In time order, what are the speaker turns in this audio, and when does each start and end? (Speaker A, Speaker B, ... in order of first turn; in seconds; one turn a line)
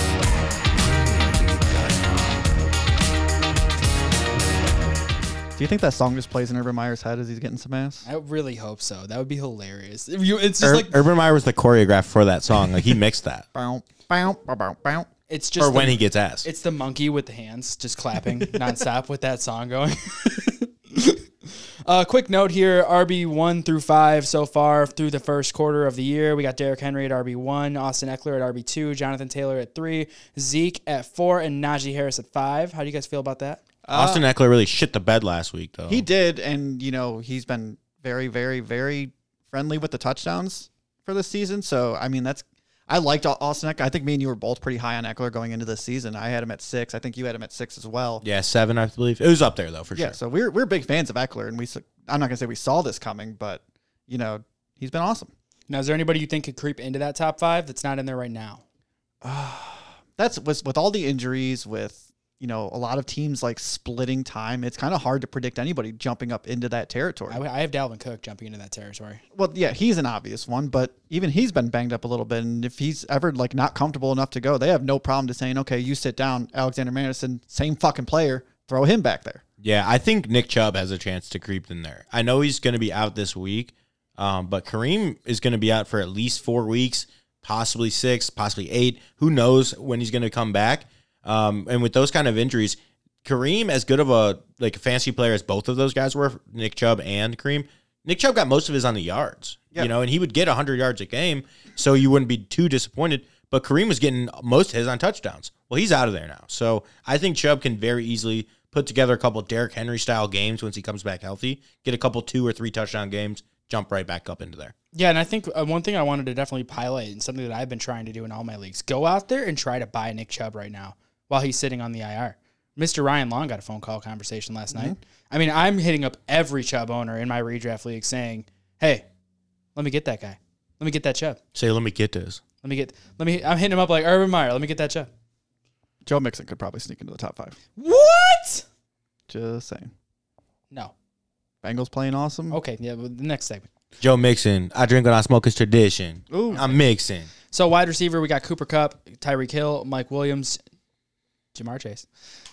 Speaker A: 5.6-8.1
Speaker B: 8.1-11.0
Speaker C: 10.6-13.4
Speaker A: 13.5-15.1
Speaker B: 15.3-33.6
Speaker C: 15.6-16.4
Speaker A: 33.9-34.3
Speaker C: 33.9-36.0
Speaker A: 35.9-48.2
Speaker C: 48.2-50.1
Speaker A: 50.0-55.3
Speaker B: 55.7-58.6
Speaker A: 59.2-67.4
Speaker B: 67.3-69.2
Speaker A: 69.3-79.4
Speaker C: 79.6-114.7
Speaker B: 114.9-129.1
Speaker A: 124.7-125.0
Speaker B: 129.8-131.4
Speaker C: 131.6-132.4
Speaker B: 132.6-135.1
Speaker A: 136.1-137.6
Speaker B: 137.8-138.6
Speaker A: 139.3-139.9
Speaker A: 141.6-142.6
Speaker B: 142.5-143.7
Speaker C: 144.0-147.3
Speaker A: 146.3-146.7
Speaker B: 147.5-150.6
Speaker B: 151.5-152.1